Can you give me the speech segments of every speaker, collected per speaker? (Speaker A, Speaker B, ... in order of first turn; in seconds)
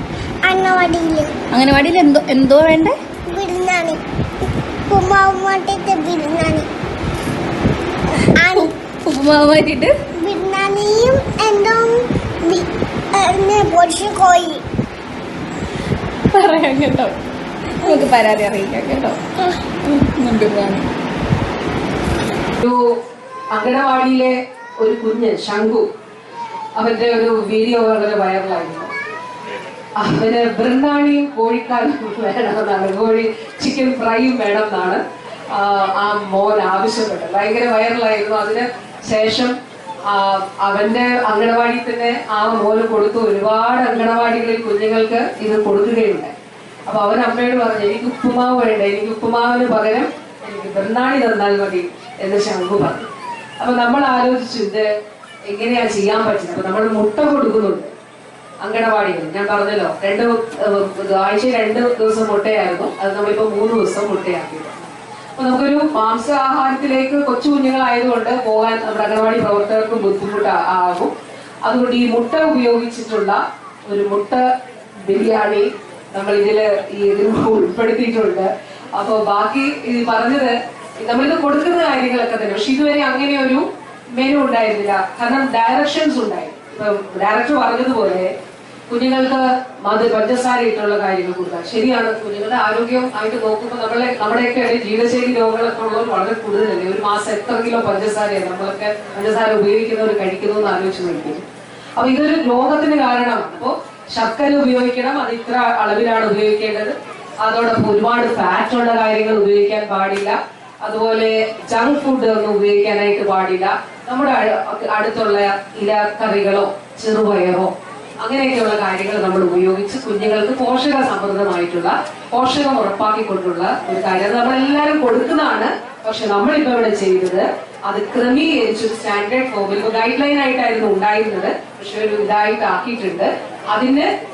Speaker A: 0.4-1.3, 3.3-4.0, 4.9-6.7, 8.3-8.7, 10.2-14.6
Speaker B: 1.5-3.0, 8.4-9.9, 16.3-17.1, 17.8-19.2, 19.9-20.9
Speaker C: 23.5-25.8, 26.8-28.9, 30.0-35.0, 35.5-39.5, 40.1-46.3, 46.9-53.1, 53.6-54.9, 55.5-57.9, 58.6-71.1, 71.6-74.4, 75.0-83.6, 84.2-88.3, 88.9-101.5, 102.0-117.7, 118.2-134.1